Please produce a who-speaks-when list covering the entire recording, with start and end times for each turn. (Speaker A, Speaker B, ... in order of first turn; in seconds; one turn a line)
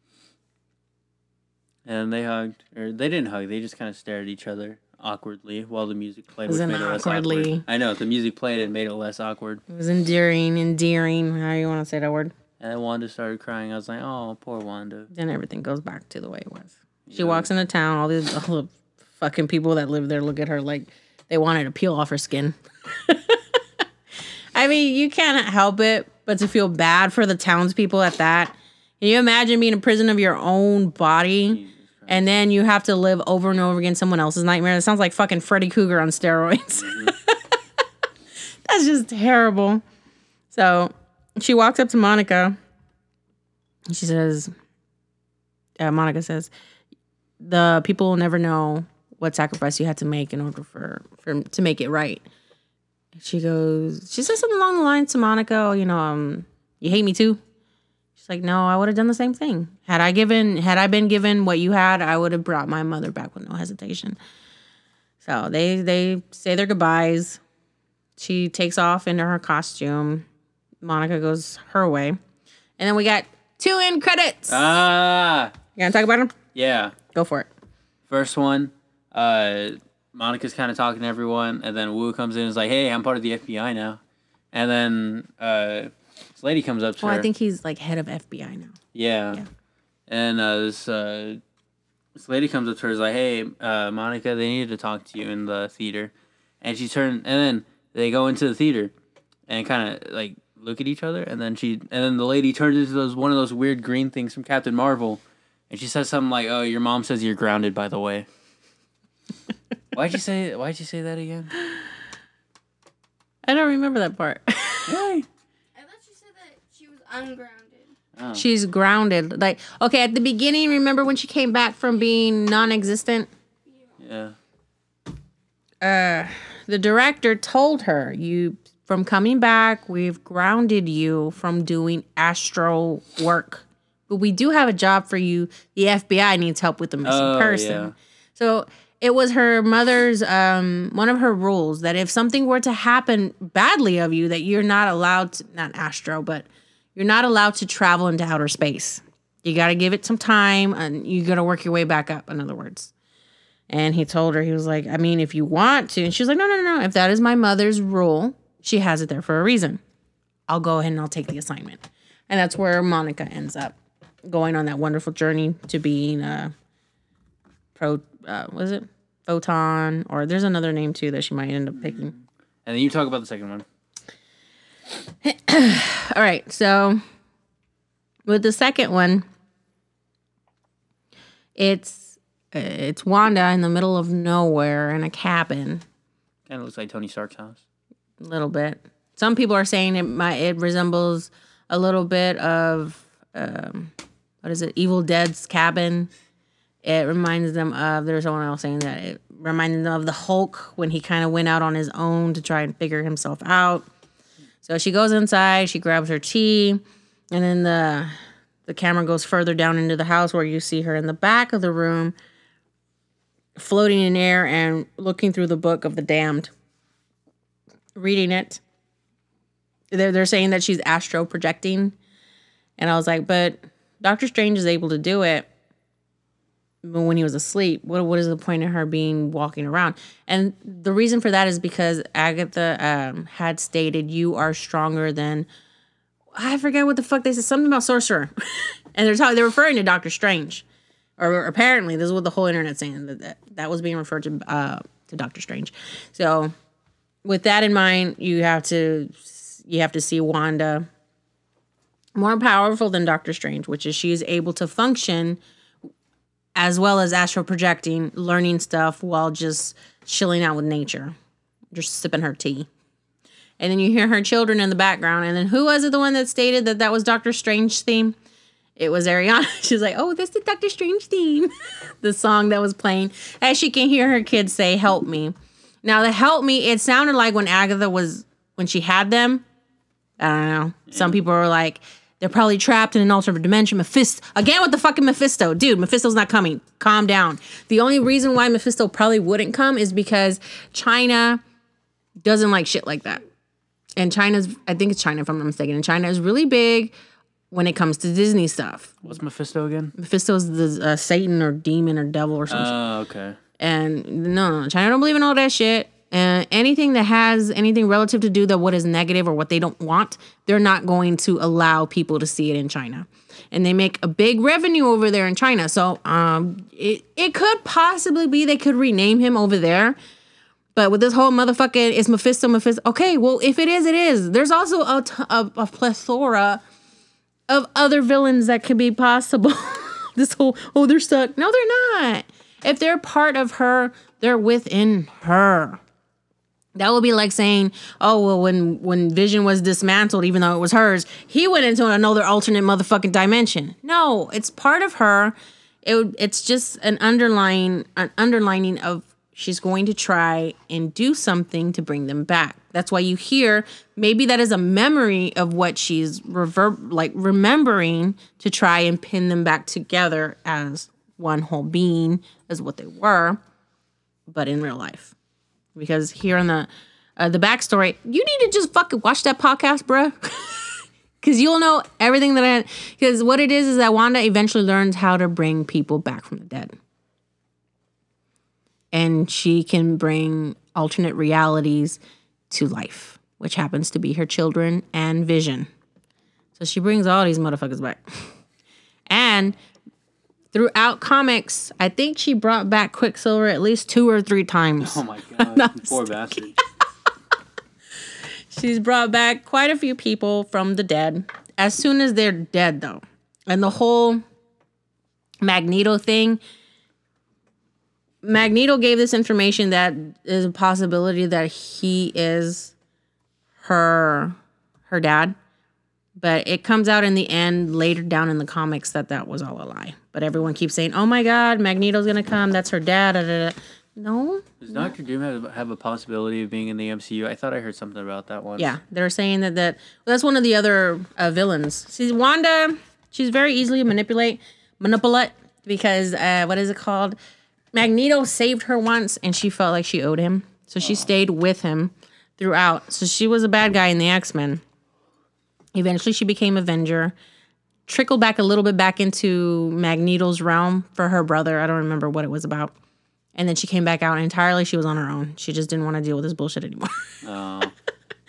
Speaker A: 1.8-9.6
Speaker B: 6.5-7.6
Speaker B: 9.7-12.3
Speaker A: 12.6-15.1
Speaker B: 15.1-23.6
Speaker A: 17.1-17.4
Speaker B: 24.5-37.6
Speaker A: 31.5-32.3
Speaker A: 36.8-37.1
Speaker B: 38.6-39.8
Speaker B: 40.5-42.5
Speaker B: 43.9-44.5
Speaker B: 45.8-46.5
Speaker B: 47.4-52.2
Speaker B: 53.2-57.4
Speaker B: 58.2-64.2
Speaker B: 65.2-67.4
Speaker B: 68.2-70.2
Speaker B: 70.8-72.2
Speaker B: 72.8-74.8
Speaker A: 74.5-75.5
Speaker B: 75.8-76.3
Speaker A: 76.5-77.0
Speaker B: 77.1-77.5
Speaker A: 78.1-84.0
Speaker A: 84.5-87.3
Speaker B: 87.0-88.8
Speaker A: 88.9-89.4
Speaker A: 90.1-91.4
Speaker A: 92.1-98.9
Speaker A: 99.5-108.3
Speaker A: 109.9-111.5
Speaker B: 113.5-115.0
Speaker A: 114.9-115.3
Speaker C: 115.7-117.9
Speaker A: 118.2-118.4
Speaker B: 118.3-123.3
Speaker C: 123.7-124.0
Speaker A: 124.0-124.3
Speaker B: 125.8-152.9
Speaker A: 137.0-137.9
Speaker B: 153.7-159.8
Speaker B: 160.5-166.5
Speaker B: 167.7-172.1
Speaker A: 171.8-173.7
Speaker B: 175.2-177.0
Speaker B: 178.3-179.2
Speaker B: 181.6-185.8
Speaker A: 186.5-187.6
Speaker B: 188.2-196.1
Speaker B: 196.8-203.8
Speaker B: 204.6-212.1
Speaker B: 213.6-216.5
Speaker B: 217.9-218.6
Speaker B: 219.9-221.9
Speaker B: 222.8-225.5
Speaker B: 226.8-235.5
Speaker B: 236.3-240.6
Speaker B: 241.2-246.5
Speaker B: 247.2-250.9
Speaker B: 252.2-255.4
Speaker B: 256.6-261.1
Speaker B: 261.7-262.7
Speaker B: 263.6-268.1
Speaker B: 268.8-279.4
Speaker B: 280.2-291.4
Speaker A: 280.9-281.2
Speaker B: 292.2-293.2
Speaker B: 294.0-296.9
Speaker B: 297.5-299.0
Speaker A: 299.0-299.9
Speaker B: 300.0-302.8
Speaker A: 302.5-303.4
Speaker B: 303.6-320.0
Speaker B: 320.7-326.6
Speaker B: 327.5-335.8
Speaker B: 336.8-363.4
Speaker B: 364.3-365.1
Speaker B: 365.7-370.6
Speaker B: 371.2-376.7
Speaker B: 378.9-382.0
Speaker B: 382.5-385.7
Speaker B: 386.6-388.3
Speaker B: 389.1-389.6
Speaker B: 390.5-396.1
Speaker A: 394.8-396.6
Speaker B: 398.5-404.2
Speaker B: 405.4-406.4
Speaker B: 408.2-412.7
Speaker B: 413.6-414.4
Speaker B: 414.9-415.4
Speaker B: 416.2-424.9
Speaker A: 424.6-428.8
Speaker B: 428.6-437.1
Speaker B: 437.7-444.6
Speaker B: 445.7-447.1
Speaker B: 447.9-452.7
Speaker B: 453.4-457.1
Speaker A: 457.2-457.7